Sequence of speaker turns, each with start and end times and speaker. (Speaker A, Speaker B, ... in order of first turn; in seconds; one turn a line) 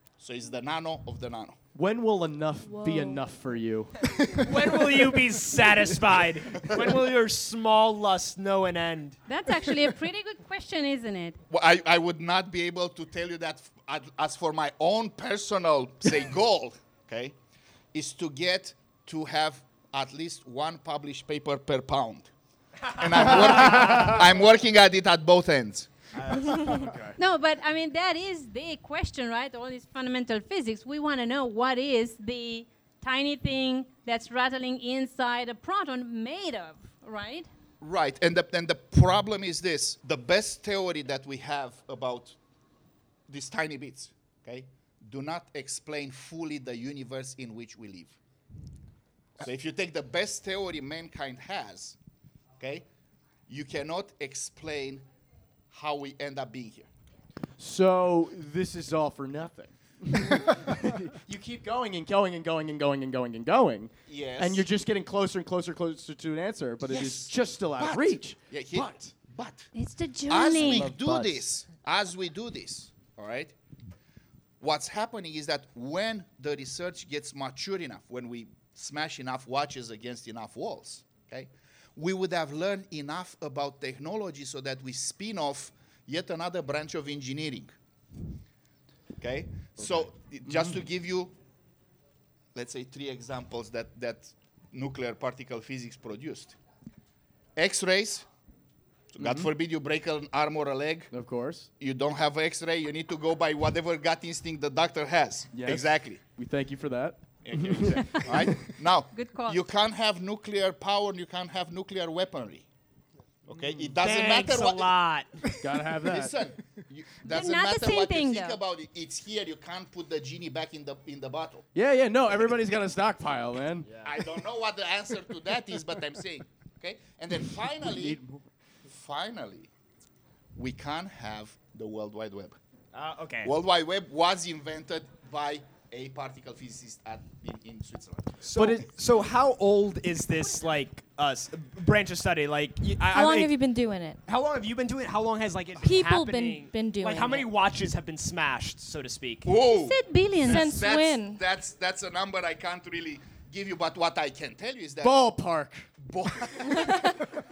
Speaker A: 0.2-1.6
Speaker B: 1.7-4.6
Speaker C: 2.6-3.4
Speaker D: 4.3-9.2
Speaker E: 9.3-11.4
Speaker A: 11.5-17.4
Speaker A: 17.9-22.3
Speaker A: 22.9-26.4
Speaker D: 23.3-24.1
Speaker D: 26.2-27.1
Speaker E: 27.2-37.5
Speaker A: 37.8-42.4
Speaker A: 43.3-48.2
Speaker A: 49.4-52.0
Speaker A: 52.6-52.8
Speaker A: 53.5-55.0
Speaker A: 55.7-56.9
Speaker B: 57.6-69.1
Speaker A: 64.1-64.7
Speaker A: 66.9-69.7
Speaker E: 69.7-70.9
Speaker A: 70.3-73.5
Speaker D: 70.6-71.4
Speaker A: 74.6-87.7
Speaker A: 89.2-91.3
Speaker B: 90.5-90.7
Speaker A: 92.5-96.6
Speaker A: 97.5-98.3
Speaker A: 99.1-101.1
Speaker B: 99.2-99.5
Speaker B: 101.1-101.7
Speaker A: 101.8-106.2
Speaker B: 105.5-108.8
Speaker A: 107.4-112.7
Speaker E: 109.1-109.6
Speaker A: 113.5-114.9
Speaker B: 113.5-113.9
Speaker D: 114.0-115.5
Speaker B: 115.6-116.3
Speaker A: 116.0-121.7
Speaker E: 117.2-118.6
Speaker B: 121.7-123.9
Speaker D: 123.8-124.2
Speaker A: 124.0-128.2
Speaker B: 127.8-128.4
Speaker A: 128.8-129.7
Speaker A: 130.5-132.6
Speaker D: 132.9-133.5
Speaker A: 133.4-138.4
Speaker D: 138.4-143.5
Speaker B: 138.6-138.8
Speaker C: 143.1-144.2
Speaker D: 144.2-149.5
Speaker C: 145.8-147.5
Speaker A: 149.4-155.3
Speaker E: 149.8-150.8
Speaker C: 150.4-151.4
Speaker B: 155.0-155.9
Speaker A: 156.0-157.1